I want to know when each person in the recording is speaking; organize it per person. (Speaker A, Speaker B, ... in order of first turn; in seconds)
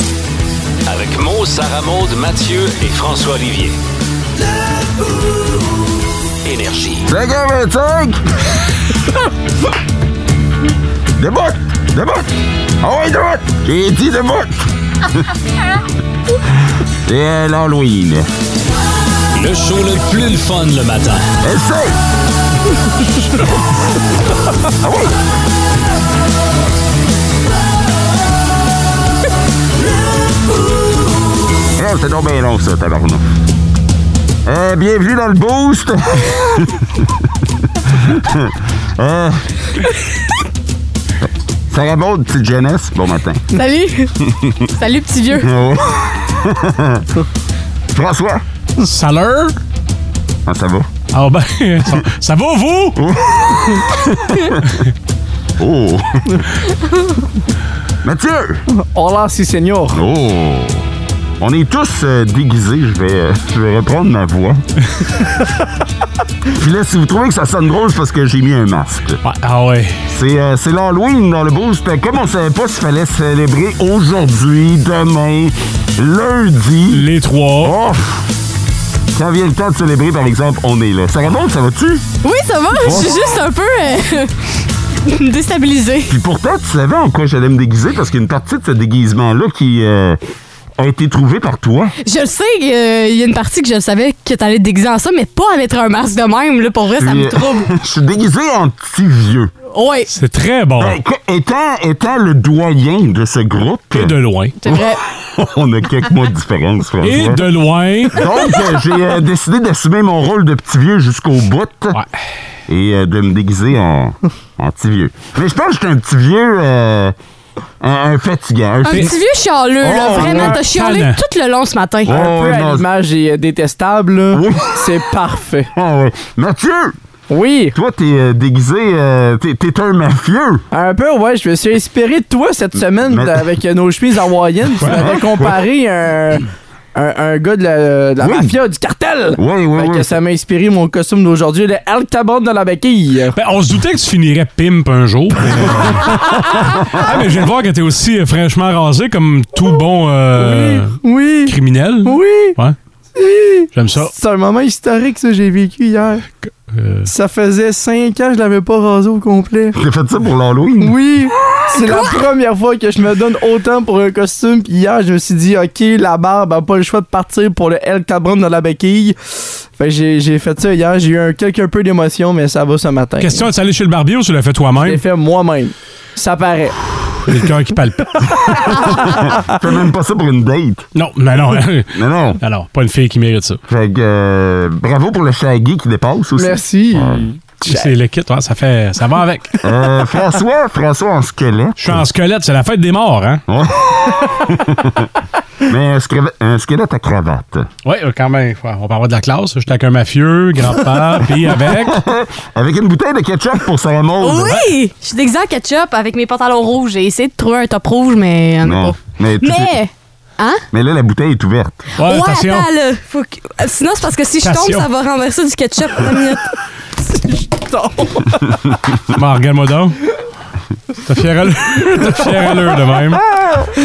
Speaker A: 0.9-3.8, 6.5-7.0, 19.4-21.3
Speaker B: 7.1-8.2, 11.2-12.3, 12.8-14.7, 17.1-18.3, 21.4-22.0, 24.8-25.1, 31.8-33.2, 34.5-36.9, 37.9-39.4, 41.7-43.6, 44.2-44.6, 45.4-47.1, 47.9-48.4, 50.5-50.9, 53.0-54.6, 55.6-56.3, 58.0-58.6, 59.9-60.9, 61.4-64.6, 66.5-69.2, 70.1-77.1, 77.6-78.2, 79.2-82.0, 82.8-83.2, 86.1-90.2, 90.8-91.9, 97.0-99.5, 100.8-104.2, 105.3-107.5, 108.2-112.0, 112.7-117.2, 117.8-119.1, 119.8-120.6, 122.1-122.8, 124.3-124.8, 125.8-127.0, 127.7-130.6, 133.1-133.4, 134.9-135.5, 138.2-138.6, 139.4-140.1, 159.7-161.0, 179.4-180.9, 181.9-182.4, 183.7-187.3, 189.6-192.0, 193.5-195.1, 195.7-197.7, 201.7-204.7, 208.6-209.8, 210.7-211.8
Speaker C: 43.5-44.1, 44.7-45.5, 82.2-84.3, 85.1-86.1, 92.0-97.7, 99.7-100.1, 104.6-105.0, 118.8-122.2, 204.2-210.6, 212.0-216.6
Speaker D: 48.8-49.5, 51.1-53.0, 69.2-69.9, 76.9-77.8, 100.1-101.0, 103.9-104.6, 107.0-108.3, 120.0-121.2, 134.8-135.2, 143.3-146.5, 147.0-152.8, 153.7-154.1, 156.5-157.1, 173.2-175.0, 177.3-178.8, 180.9-183.6, 187.6-189.6, 191.8-193.4, 197.8-202.0, 212.0-212.7, 214.4-214.9, 219.1-220.0, 221.0-223.2
Speaker E: 58.9-60.0, 122.1-125.7, 127.3-127.8, 130.7-143.3, 150.4-152.6, 153.2-156.3, 157.1-159.8, 160.8-169.2, 169.8-173.5, 174.8-176.8, 186.3-187.9, 217.3-218.1